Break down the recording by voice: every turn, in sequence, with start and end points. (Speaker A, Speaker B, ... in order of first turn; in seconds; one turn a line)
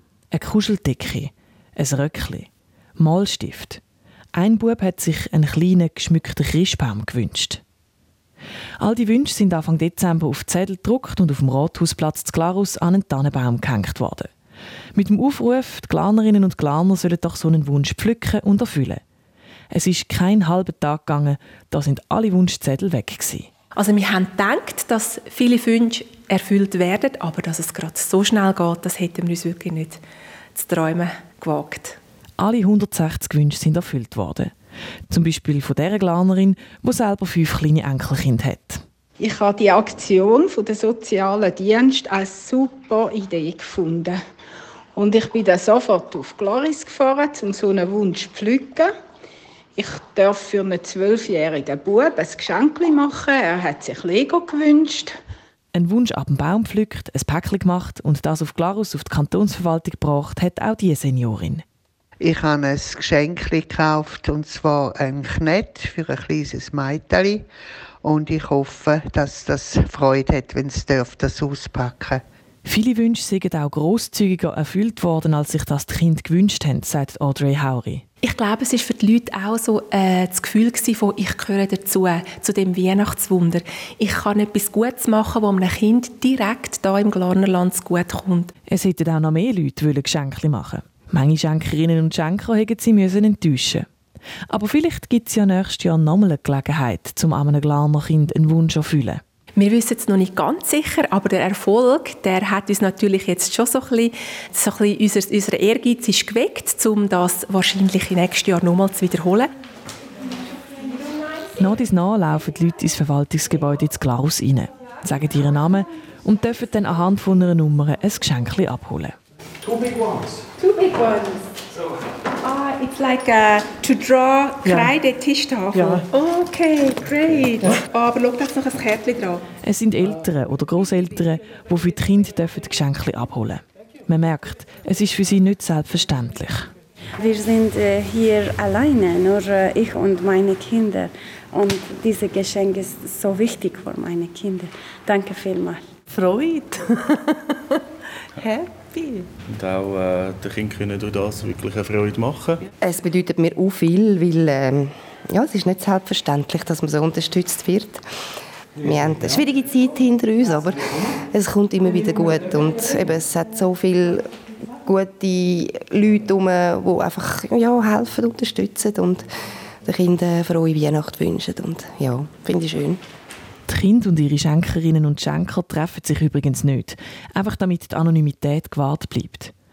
Speaker A: 0.3-2.5
Speaker A: 3.0-3.8
Speaker A: 4.3-7.6
Speaker A: 8.8-14.3
Speaker A: 14.9-19.0
Speaker A: 19.7-23.5
Speaker B: 23.8-30.0
Speaker B: 30.5-32.0
Speaker A: 32.4-34.5
Speaker A: 35.1-38.8
Speaker C: 39.2-44.2
Speaker C: 44.9-48.9
Speaker C: 49.8-55.2
Speaker A: 55.7-61.6
Speaker D: 62.2-67.5
Speaker D: 68.0-72.2
Speaker A: 72.6-78.0
Speaker B: 78.2-88.5
Speaker A: 88.7-93.8
Speaker A: 94.5-99.2
Speaker B: 99.6-109.5
Speaker A: 111.6-119.2
Speaker B: 120.6-121.5
Speaker B: 122.4-129.4
Speaker A: 129.6-136.7
Speaker E: 137.2-145.8
Speaker B: 148.5-149.2
Speaker F: 149.5-152.6
Speaker G: 152.8-158.0
Speaker G: 158.8-164.3
Speaker G: 164.8-169.3
Speaker G: 169.8-173.0
Speaker A: 173.7-179.5